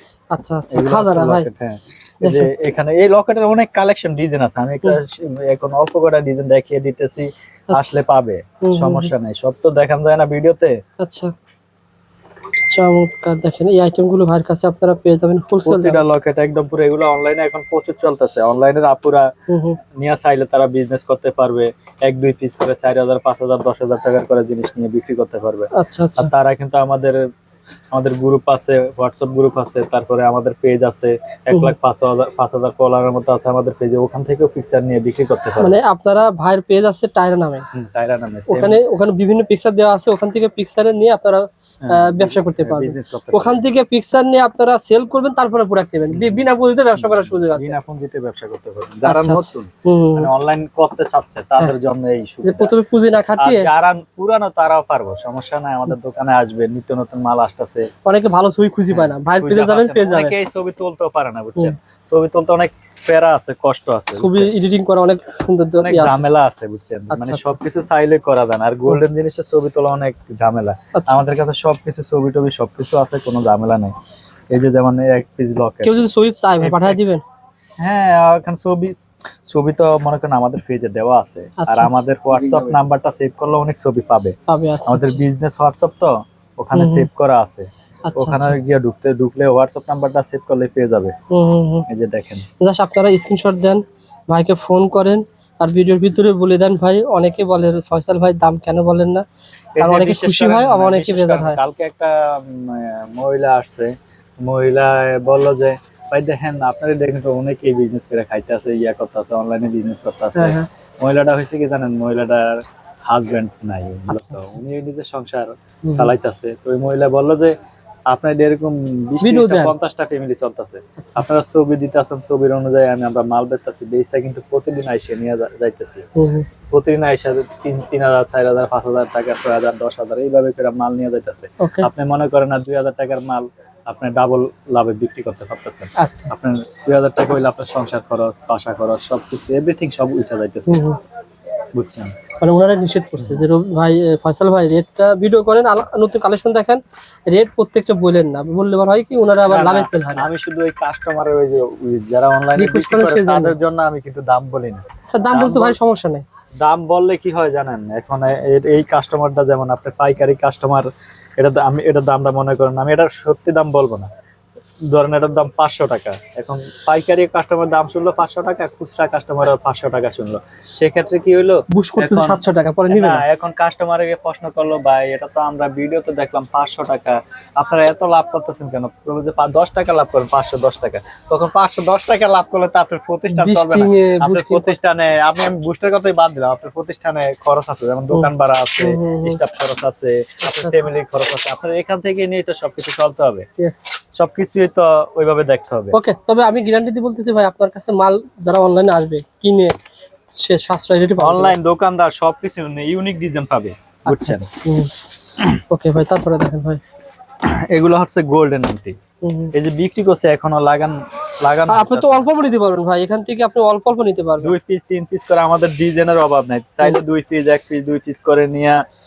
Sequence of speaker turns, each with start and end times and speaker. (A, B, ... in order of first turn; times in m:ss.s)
0:00.3-0:01.5 A
0:00.7-0:10.8 B
0:02.2-0:02.5 A
0:07.7-0:08.0 A
0:08.6-0:09.1 A
0:11.0-0:11.3 A
0:12.7-0:16.0 A
0:15.6-0:19.3 B
0:19.5-0:19.8 A
0:20.0-0:27.2 B
0:25.8-0:26.3 A
0:27.9-0:35.8 B
0:35.6-0:37.6 A
0:37.7-0:38.8 B
0:38.5-0:47.8 A
0:41.8-0:43.6 B
0:46.1-0:46.4 B
0:47.0-0:52.7 B
0:49.0-0:50.3 A
0:52.4-0:53.7 A
0:53.4-0:57.9 B
0:58.0-1:00.4 A
0:58.9-1:04.5 B
1:04.1-1:06.2 A
1:05.8-1:13.9 B
1:07.1-1:07.6 A
1:10.9-1:11.2 A
1:14.5-1:16.0 B
1:15.8-1:17.2 A
1:16.6-1:17.0 B
1:17.8-1:24.4 B
1:21.6-1:22.0 A
1:24.5-1:25.2 A
1:24.9-1:31.1 B
1:26.7-1:27.1 A
1:28.0-1:28.6 A
1:31.3-1:31.8 A
1:31.9-1:32.4 B
1:32.6-1:39.2 A
1:39.8-1:57.5 B
1:39.8-1:41.6 A
1:50.4-1:50.7 A
1:54.1-1:54.6 A
1:55.9-1:56.1 A
1:58.1-2:06.0 B
1:59.2-1:59.7 A
2:01.0-2:01.3 A
2:06.2-2:06.4 A
2:06.7-2:20.8 B
2:11.6-2:11.9 A
2:16.0-2:16.3 A
2:20.7-2:21.0 A
2:21.8-2:22.1 B
2:22.4-2:30.3 A
2:29.5-2:35.8 B
2:32.6-2:33.5 A
2:35.1-2:36.2 A
2:36.6-2:44.1 B
2:44.9-3:13.4 B
2:51.7-2:53.2 A
3:03.3-3:04.7 A
3:08.1-3:09.4 A
3:10.4-3:10.8 A
3:13.6-3:13.9 A
3:14.2-3:16.0 B
3:15.9-3:19.7 A
3:20.3-3:21.5 A
3:21.2-3:24.5 B
3:24.0-3:24.9 A
3:25.7-3:26.8 A
3:27.4-3:29.0 B
3:29.2-3:29.5 A
3:29.5-3:32.2 B
3:31.7-3:34.5 A
3:34.4-3:38.8 B